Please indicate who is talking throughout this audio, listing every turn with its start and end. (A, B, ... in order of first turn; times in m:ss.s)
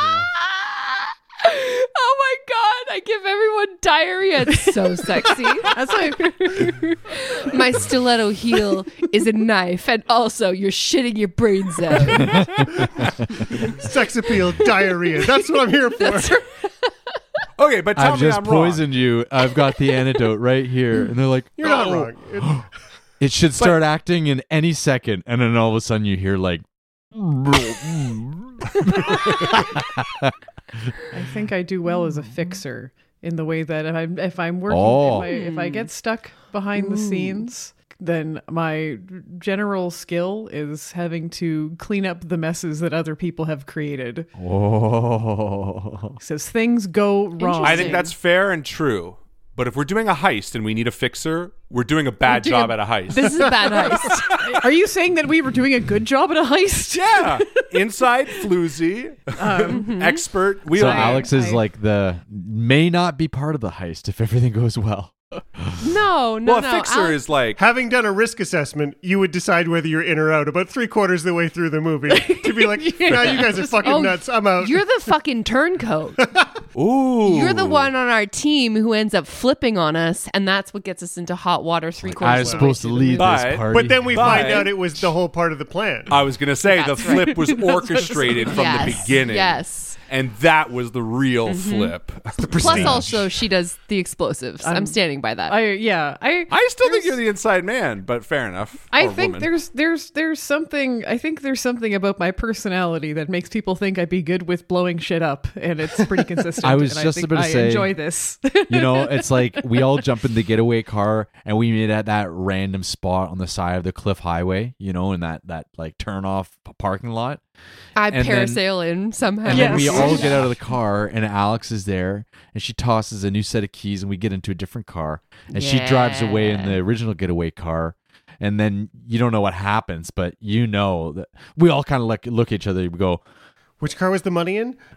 0:00.4-0:12.7 A
0:05.1-0:06.9 B
0:12.4-0:12.6 C
0:13.6-0:16.4 D
0:16.0-0:16.9 A
0:17.6-0:18.8 E
0:18.0-0:22.7 C
0:21.6-0:22.7 D
0:21.6-0:22.1 E
0:23.2-0:30.8 C
0:31.1-0:44.3 B
0:34.7-0:35.3 C
0:35.1-0:35.9 A
0:36.8-0:37.4 A
0:44.4-0:46.2 C
0:46.2-0:48.1 B
0:47.4-0:48.1 A
0:47.6-0:54.6 E
0:52.3-0:54.3 A
0:53.2-0:57.8 B
0:56.9-1:01.3 E
0:59.4-0:59.8 B
0:59.7-1:00.2 A
1:00.7-1:05.8 C
1:00.8-1:01.6 B
1:05.8-1:07.2 A
1:06.4-1:07.6 E
1:07.6-1:14.8 D
1:12.2-1:14.0 B
1:13.3-1:16.2 A
1:16.3-1:16.6 D
1:16.8-1:17.9 E
1:17.2-1:23.5 A
1:22.2-1:22.8 D
1:22.2-1:24.6 C
1:23.2-1:24.8 E
1:23.7-1:26.2 D
1:26.1-1:33.1 E
1:26.7-1:30.0 A
1:27.1-1:28.5 B
1:31.5-1:35.6 A
1:32.5-1:33.2 C
1:34.6-1:37.2 B
1:36.5-1:39.5 E
1:38.9-1:50.0 B
1:46.6-1:57.4 C
1:58.0-2:00.5 A
1:58.1-1:58.6 C
1:59.4-2:13.2 C
1:59.5-2:00.3 B
2:05.5-2:06.8 A
2:13.8-2:14.8 D